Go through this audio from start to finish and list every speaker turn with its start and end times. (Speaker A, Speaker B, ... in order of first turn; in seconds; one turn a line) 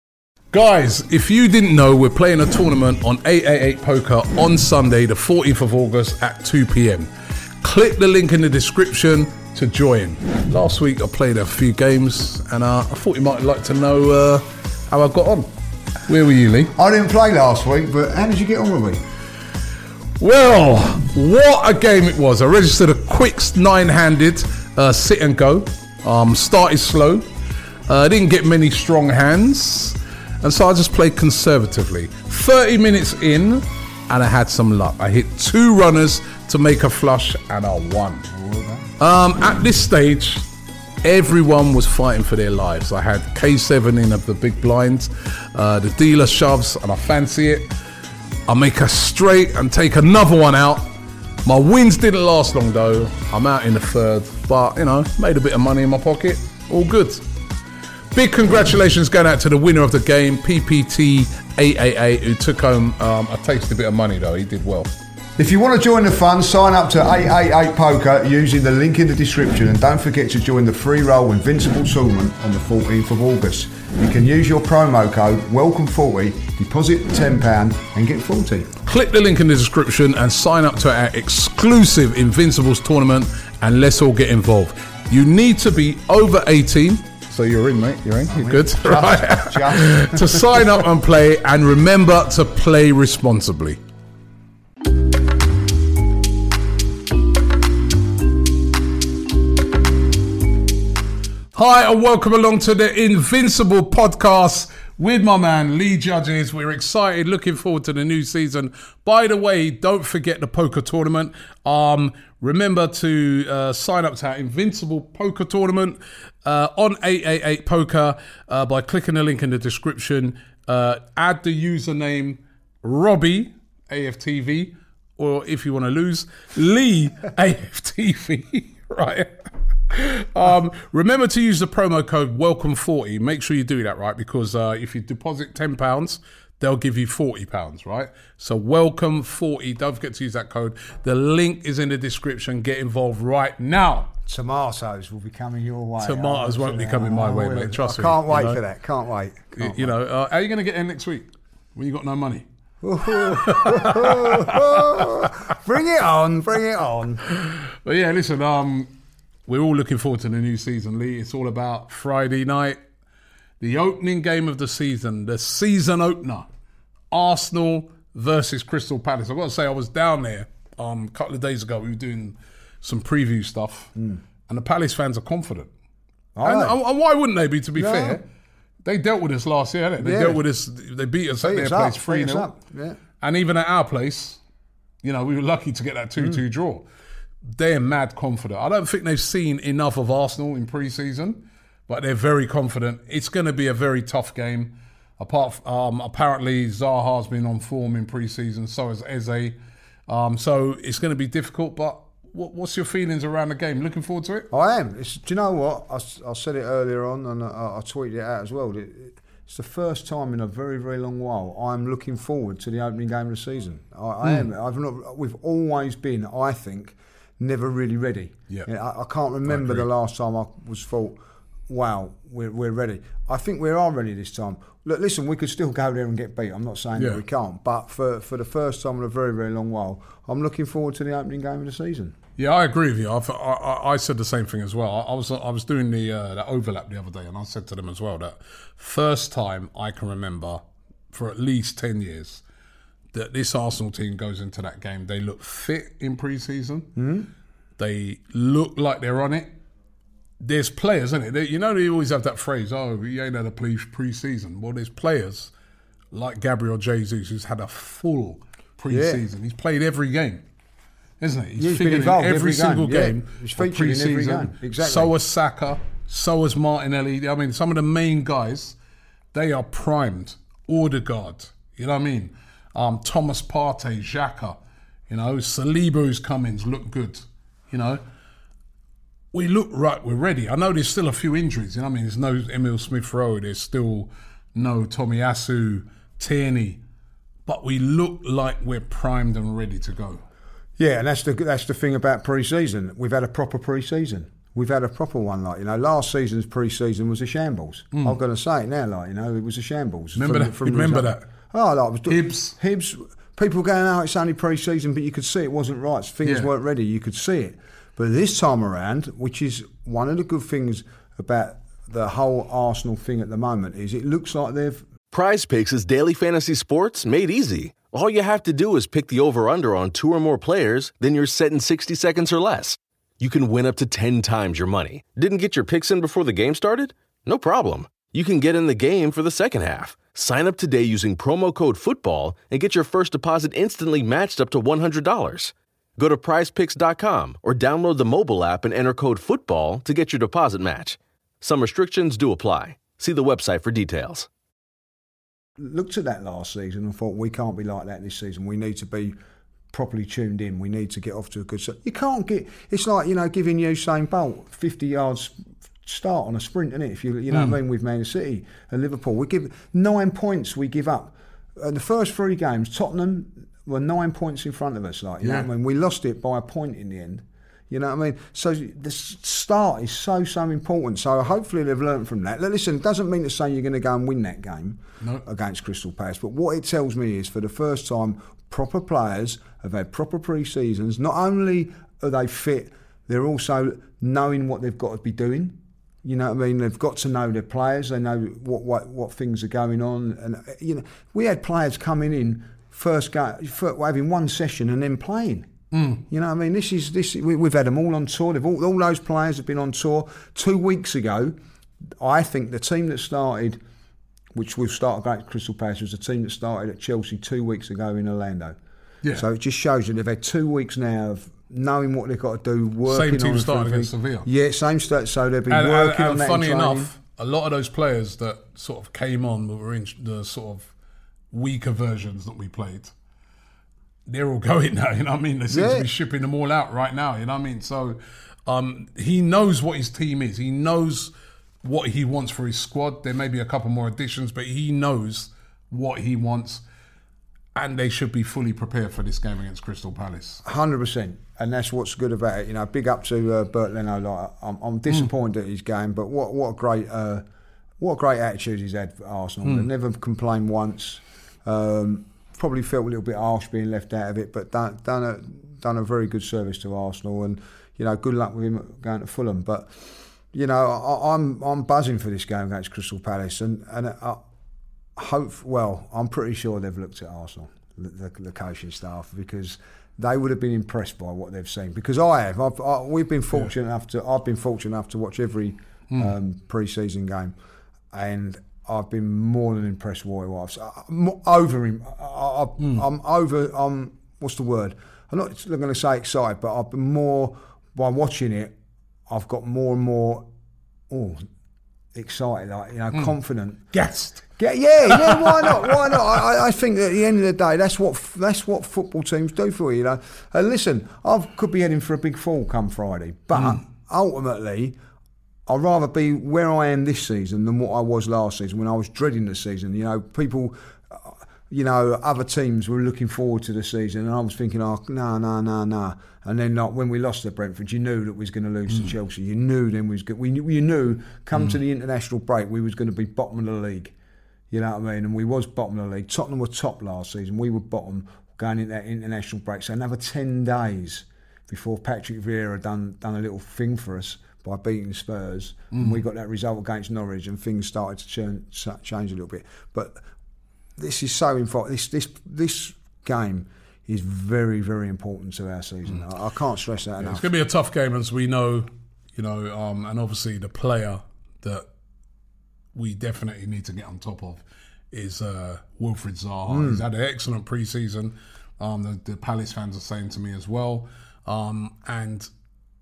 Speaker A: 0.5-7.1
Speaker A: 7.6-15.5
Speaker A: 16.1-16.7
Speaker B: 16.8-19.0
Speaker A: 20.2-27.2
Speaker A: 27.9-38.3
Speaker B: 38.3-38.9
Speaker A: 39.0-40.5
Speaker A: 41.0-47.7
Speaker A: 48.5-50.9
Speaker A: 51.5-57.2
Speaker A: 58.1-64.9
Speaker B: 65.4-78.7
Speaker A: 78.9-93.8
Speaker B: 88.3-90.9
Speaker A: 101.5-129.3
Speaker A: 129.9-144.1
Speaker B: 144.2-149.9
Speaker A: 146.0-148.6
Speaker A: 149.6-152.5
Speaker B: 152.8-157.3
Speaker A: 153.2-155.3
Speaker A: 157.4-158.9
Speaker A: 159.5-162.8
Speaker A: 163.6-166.5
Speaker A: 167.1-173.9
Speaker B: 174.0-174.2
Speaker A: 174.5-175.7
Speaker B: 176.3-176.8
Speaker A: 176.4-178.2
Speaker B: 177.8-178.2
Speaker A: 178.8-182.5
Speaker B: 180.0-180.4
Speaker B: 181.4-183.0
Speaker A: 183.2-184.4
Speaker A: 185.0-186.8
Speaker A: 187.5-199.6
Speaker A: 200.1-204.5
Speaker B: 204.5-232.2
Speaker A: 214.2-214.5
Speaker A: 219.5-219.9
Speaker A: 232.4-240.6
Speaker A: 241.1-242.4
Speaker A: 243.1-246.9
Speaker B: 247.0-247.3
Speaker A: 247.8-249.5
Speaker A: 250.4-255.5
Speaker A: 256.1-260.4
Speaker B: 258.9-259.2
Speaker A: 261.2-268.8
Speaker B: 261.6-265.1
Speaker A: 269.3-274.6
Speaker A: 275.1-278.0
Speaker A: 279.3-286.8
Speaker A: 287.4-290.2
Speaker B: 290.8-314.9
Speaker A: 300.1-301.2
Speaker A: 302.1-302.6
Speaker A: 306.2-306.5
Speaker C: 315.1-344.3
Speaker B: 345.6-349.2
Speaker B: 349.7-395.5
Speaker A: 357.3-357.6
Speaker A: 365.2-365.5
Speaker A: 395.7-396.0
Speaker B: 396.1-401.4
Speaker B: 402.0-403.6
Speaker B: 404.3-408.6
Speaker B: 409.1-416.9
Speaker A: 412.9-414.3
Speaker A: 415.5-420.7
Speaker A: 421.3-422.9
Speaker A: 424.1-431.1
Speaker B: 425.5-425.9
Speaker A: 431.6-436.6
Speaker A: 437.5-440.4
Speaker B: 440.4-447.2
Speaker B: 447.8-464.2
Speaker B: 464.9-477.4
Speaker B: 477.9-488.6
Speaker B: 489.1-490.3
Speaker B: 490.9-491.3
Speaker B: 491.9-493.6
Speaker A: 493.7-494.3
Speaker B: 494.4-504.8
Speaker A: 494.9-495.9
Speaker B: 505.5-524.0
Speaker B: 524.5-540.0
Speaker A: 535.7-536.0
Speaker B: 540.8-547.2
Speaker A: 547.0-551.6
Speaker A: 552.7-562.3
Speaker B: 556.5-556.8